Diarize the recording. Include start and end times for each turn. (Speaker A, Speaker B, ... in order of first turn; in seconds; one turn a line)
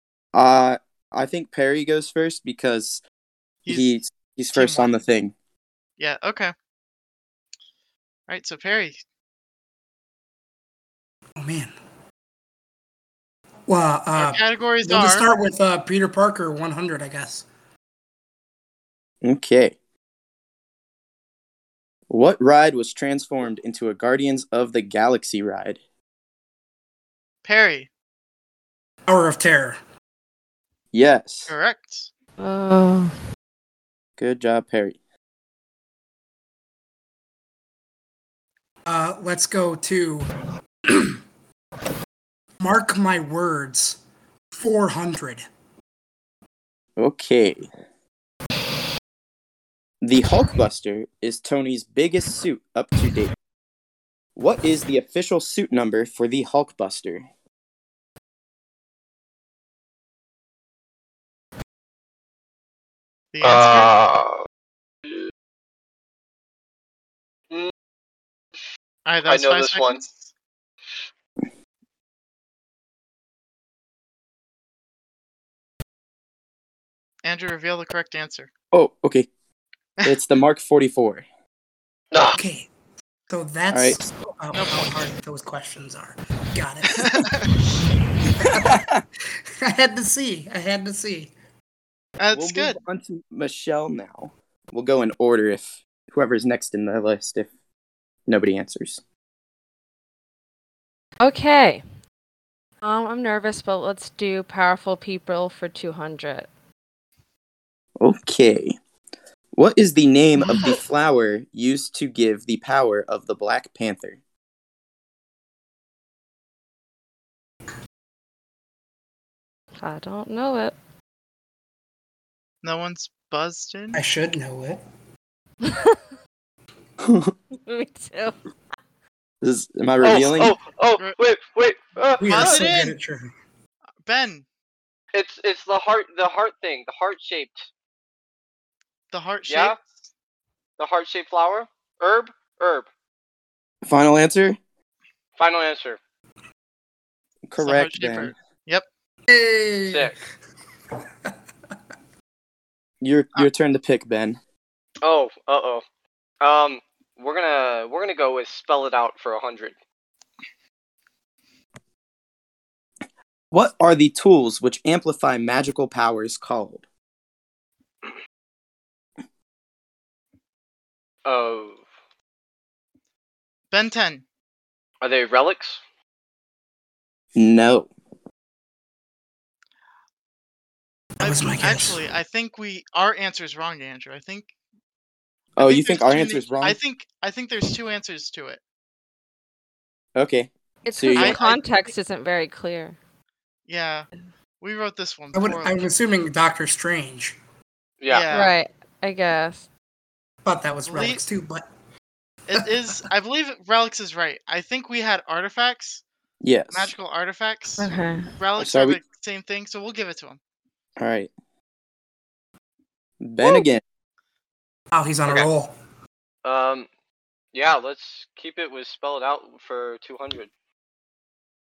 Speaker A: 0.3-3.0
Speaker B: 3.6-4.0
Speaker A: 3.7-5.3
Speaker B: 4.5-4.9
Speaker B: 6.0-6.5
Speaker B: 8.3-9.0
Speaker C: 11.4-11.7
Speaker C: 13.7-17.5
Speaker B: 14.2-15.3
Speaker A: 19.2-19.8
Speaker A: 22.1-25.8
Speaker B: 27.4-27.9
Speaker C: 29.1-29.8
Speaker A: 30.9-31.5
Speaker B: 31.5-32.1
Speaker D: 32.4-33.1
Speaker A: 34.2-35.0
Speaker C: 38.9-40.3
Speaker C: 40.9-41.2
Speaker C: 42.6-44.0
Speaker C: 44.5-45.5
Speaker A: 47.0-47.7
Speaker A: 50.0-53.3
Speaker A: 54.4-57.3
Speaker B: 63.3-63.9
Speaker E: 63.4-64.4
Speaker B: 69.0-70.3
Speaker E: 69.3-70.0
Speaker B: 77.2-78.5
Speaker A: 78.7-79.3
Speaker A: 80.0-81.3
Speaker E: 82.1-82.4
Speaker C: 82.3-82.7
Speaker C: 83.3-87.3
Speaker A: 83.7-84.0
Speaker B: 84.5-85.0
Speaker B: 86.9-87.5
Speaker C: 88.3-88.8
Speaker A: 88.4-89.0
Speaker C: 89.6-91.3
Speaker B: 92.2-92.8
Speaker A: 92.3-97.5
Speaker A: 98.3-99.0
Speaker D: 101.2-101.8
Speaker D: 102.8-106.5
Speaker A: 108.0-108.8
Speaker A: 109.5-114.2
Speaker D: 119.8-120.8
Speaker B: 122.6-124.0
Speaker C: 123.9-124.8
Speaker D: 125.6-126.0
Speaker A: 127.1-127.3
Speaker D: 127.7-128.4
Speaker A: 129.4-130.6
Speaker E: 130.0-132.6
Speaker C: 132.2-133.3
Speaker B: 132.3-133.0
Speaker B: 134.0-134.4
Speaker E: 135.1-137.7
Speaker B: 139.1-139.9
Speaker E: 139.5-139.8
Speaker E: 140.8-142.9
Speaker A: 143.8-144.6
Speaker E: 145.4-146.0
Speaker A: 147.5-148.3
Speaker B: 147.6-148.8
Speaker C: 149.3-150.1
Speaker E: 149.9-150.2
Speaker A: 153.0-154.4
Speaker E: 155.0-155.8
Speaker E: 156.4-159.8
Speaker A: 163.5-166.8
Speaker E: 171.2-171.8
Speaker B: 173.7-174.2
Speaker E: 175.0-175.8
Speaker A: 177.3-177.9
Speaker C: 181.2-182.0
Speaker B: 181.2-184.5
Speaker A: 185.6-186.8
Speaker B: 185.6-188.6
Speaker A: 190.2-191.4
Speaker D: 190.8-193.0
Speaker B: 191.1-191.7
Speaker B: 193.7-194.1
Speaker B: 194.6-195.9
Speaker C: 195.3-197.4
Speaker E: 198.0-198.4
Speaker B: 198.1-198.5
Speaker D: 198.3-199.7
Speaker C: 200.4-201.7
Speaker B: 200.8-201.2
Speaker B: 202.5-206.0
Speaker A: 206.4-206.9
Speaker B: 206.7-210.4
Speaker D: 207.8-208.3
Speaker A: 208.6-209.0
Speaker A: 211.0-211.3
Speaker A: 213.2-213.8
Speaker C: 214.9-215.7
Speaker E: 216.4-216.9
Speaker E: 217.5-220.5